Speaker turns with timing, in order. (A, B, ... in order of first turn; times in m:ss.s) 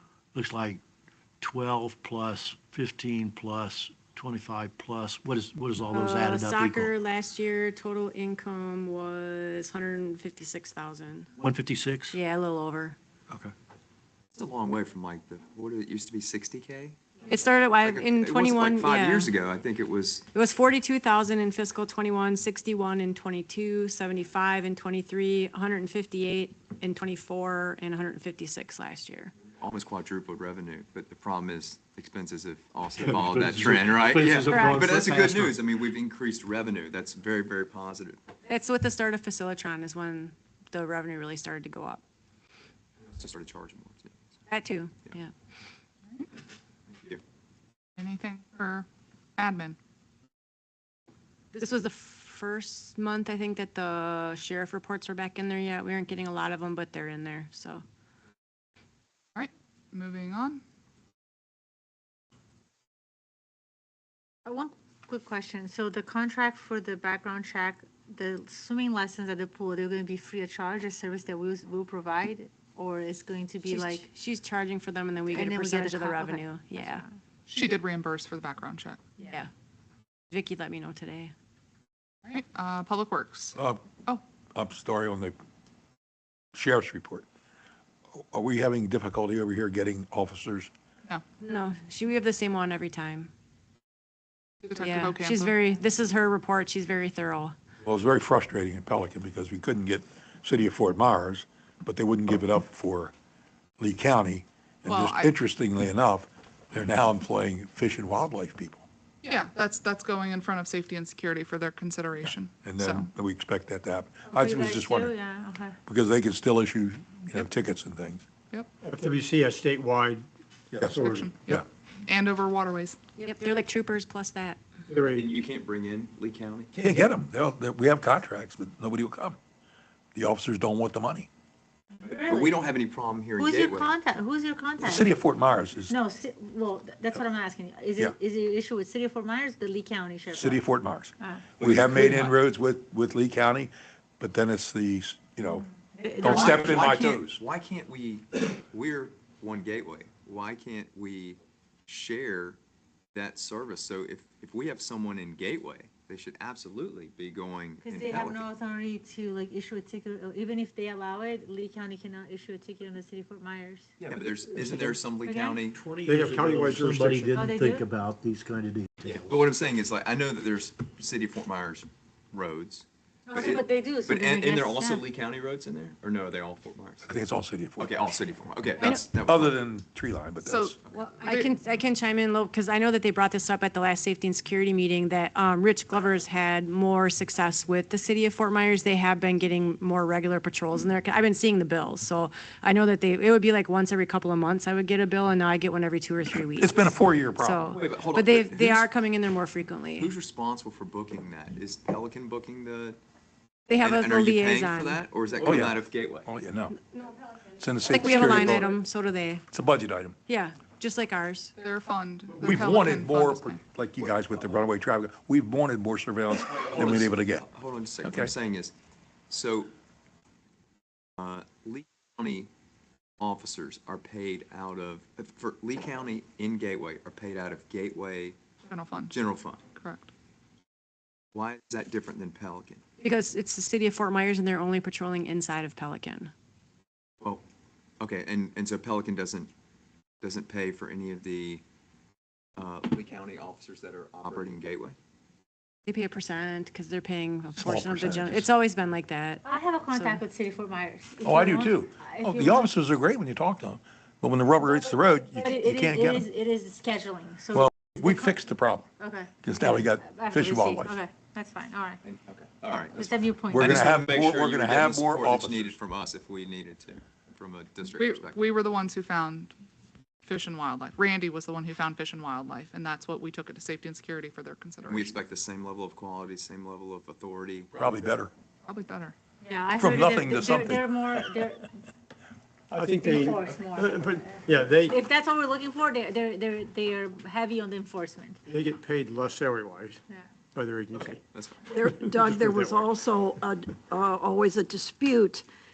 0:00.3-0:00.8 A
0:01.4-0:06.9 A
0:05.9-0:11.3 B
0:11.4-0:12.2 A
0:12.1-0:13.0 B
0:14.3-0:17.0 C
0:17.3-0:19.3 B
0:17.8-0:20.3 C
0:20.3-0:29.3 B
0:29.6-0:38.2 C
0:33.0-0:35.6 A
0:34.5-0:35.1 D
0:38.5-0:42.0 B
0:43.1-0:44.2 C
0:44.5-0:45.3 B
0:46.9-0:47.2 C
0:48.0-0:48.9 E
0:49.4-0:49.8 E
0:51.5-0:57.8 B
0:59.4-1:00.6 E
1:04.5-1:14.1 D
1:13.6-1:17.0 B
1:15.3-1:17.1 D
1:17.5-1:19.0 E
1:19.2-1:19.5 B
1:20.3-1:21.3 B
1:22.3-1:24.2 E
1:23.6-1:23.9 F
1:24.5-1:25.4 F
1:26.5-1:27.3 F
1:28.2-1:30.7 F
1:31.4-1:33.3 B
1:34.6-1:35.6 E
1:34.8-1:37.5 B
1:37.8-1:43.1 F
1:43.8-1:48.8 F
1:44.9-1:45.4 E
1:49.2-1:53.1 E
1:52.6-1:55.2 F
1:54.3-1:55.8 D
1:55.9-1:58.2 F
1:58.8-2:00.2 G
2:00.7-2:01.6 F
2:00.8-2:01.3 G
2:01.0-2:03.0 E
2:03.2-2:04.6 B
2:04.9-2:05.3 G
2:05.1-2:06.7 C
2:06.8-2:09.4 F
2:10.2-2:11.3 F
2:12.0-2:12.6 D
2:12.1-2:14.0 C
2:13.4-2:15.1 D
2:14.8-2:16.0 F
2:15.9-2:20.6 D
2:20.3-2:25.7 F
2:21.2-2:21.5 D
2:21.6-2:22.3 C
2:26.0-2:26.9 D
2:26.2-2:27.4 F
2:26.2-2:32.6 C
2:33.1-2:38.5 C
2:37.8-2:43.9 D
2:44.0-2:45.8 C
2:44.1-2:44.9 A
2:45.2-2:45.7 D
2:45.7-2:49.2 A
2:46.0-2:47.4 G
2:47.3-2:47.9 D
2:49.0-2:57.1 C
2:53.3-2:55.1 D
2:57.1-2:58.1 F
2:57.8-2:59.6 C
2:58.8-3:00.8 F
3:00.4-3:01.6 E
3:01.2-3:20.1 B
3:16.5-3:17.6 F
3:17.7-3:18.9 C
3:20.0-3:23.0 C
3:23.7-3:25.0 B
3:23.8-3:26.3 C
3:25.4-3:26.8 F
3:27.6-3:28.8 F
3:27.9-3:29.5 B
3:29.5-3:30.2 F
3:30.3-3:31.5 B
3:31.6-3:33.6 E
3:32.4-3:37.5 F
3:36.6-3:38.7 C
3:38.0-3:38.3 F
3:39.3-3:39.7 C
3:41.2-3:42.5 C
3:43.2-3:48.4 C
3:48.7-3:50.1 E
3:49.1-3:49.6 C
3:51.3-3:52.8 C
3:53.0-3:56.3 B
3:58.0-3:59.5 C
4:00.2-4:01.6 C
4:02.6-4:05.0 C
4:05.9-4:10.3 B
4:07.6-4:08.5 F
4:09.4-4:12.7 D
4:11.2-4:16.3 F
4:15.4-4:18.4 D
4:17.5-4:18.9 F
4:19.0-4:22.0 D
4:19.4-4:21.0 F
4:22.0-4:28.4 C
4:22.8-4:23.9 D
4:23.5-4:25.8 F
4:27.9-4:29.5 E
4:30.3-4:35.2 E
4:34.9-4:37.8 C
4:37.7-4:38.3 F
4:38.7-4:39.2 E
4:39.4-4:41.7 D
4:39.8-4:41.2 F
4:42.7-4:45.0 G
4:42.8-4:48.4 D
4:48.5-4:50.0 G
4:50.5-4:51.2 G
4:51.3-4:51.7 C
4:51.6-4:55.5 H
4:51.9-4:52.8 G